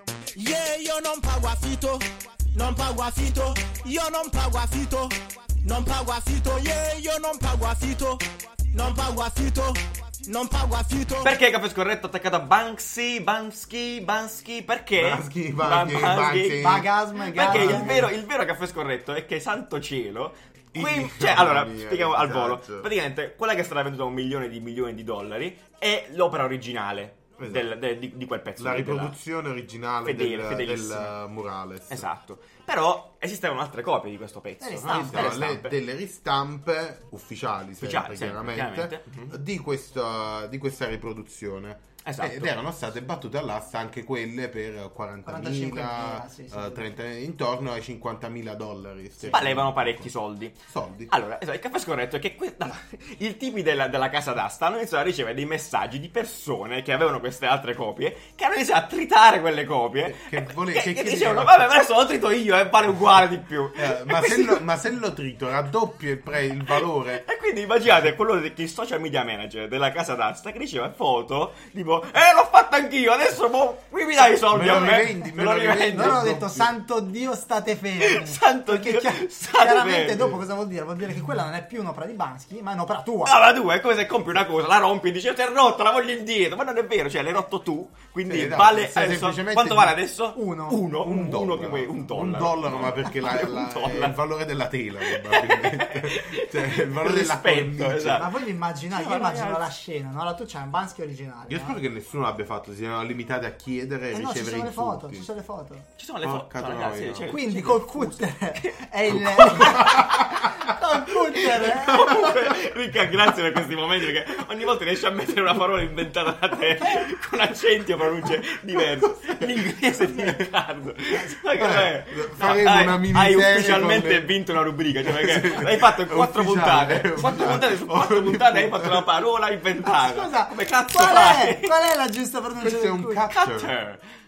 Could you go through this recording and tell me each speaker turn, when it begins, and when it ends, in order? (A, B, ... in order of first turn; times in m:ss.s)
0:00.3-0:11.3 A
0:11.2-0:16.8 B
0:15.0-0:18.1 C
0:16.6-0:18.1 D
0:17.3-0:29.1 B
0:20.7-0:22.9 C
0:27.4-0:27.7 C
0:28.6-0:32.1 C
0:30.0-0:31.1 B
0:31.9-0:35.8 B
0:34.6-0:35.4 D
0:34.9-0:50.1 C
0:37.8-0:39.4 B
0:42.0-0:42.5 B
0:45.2-0:46.9 D
0:49.2-0:50.6 B
0:50.7-0:51.1 C
0:51.1-1:04.6 B
1:00.0-1:01.7 C
1:03.8-1:07.2 C
1:06.6-1:16.3 B
1:14.4-1:16.7 C
1:16.0-1:23.4 D
1:18.0-1:20.4 B
1:23.2-1:34.2 B
1:28.3-1:30.0 C
1:30.3-1:30.8 D
1:31.0-1:38.2 C
1:35.0-1:38.4 B
1:38.1-1:41.8 D
1:38.9-1:39.7 B
1:41.5-1:45.3 C
1:44.1-1:45.8 D
1:46.0-1:50.3 B
1:46.2-1:47.3 C
1:47.3-1:52.2 D
1:49.6-1:50.5 C
1:51.4-2:11.7 B
1:52.0-1:52.6 C
1:59.0-1:59.5 C
2:00.1-2:00.4 C
2:01.5-2:04.4 C
2:05.0-2:09.1 C
2:09.8-2:13.2 D
2:12.6-2:13.7 C
2:13.3-2:14.0 B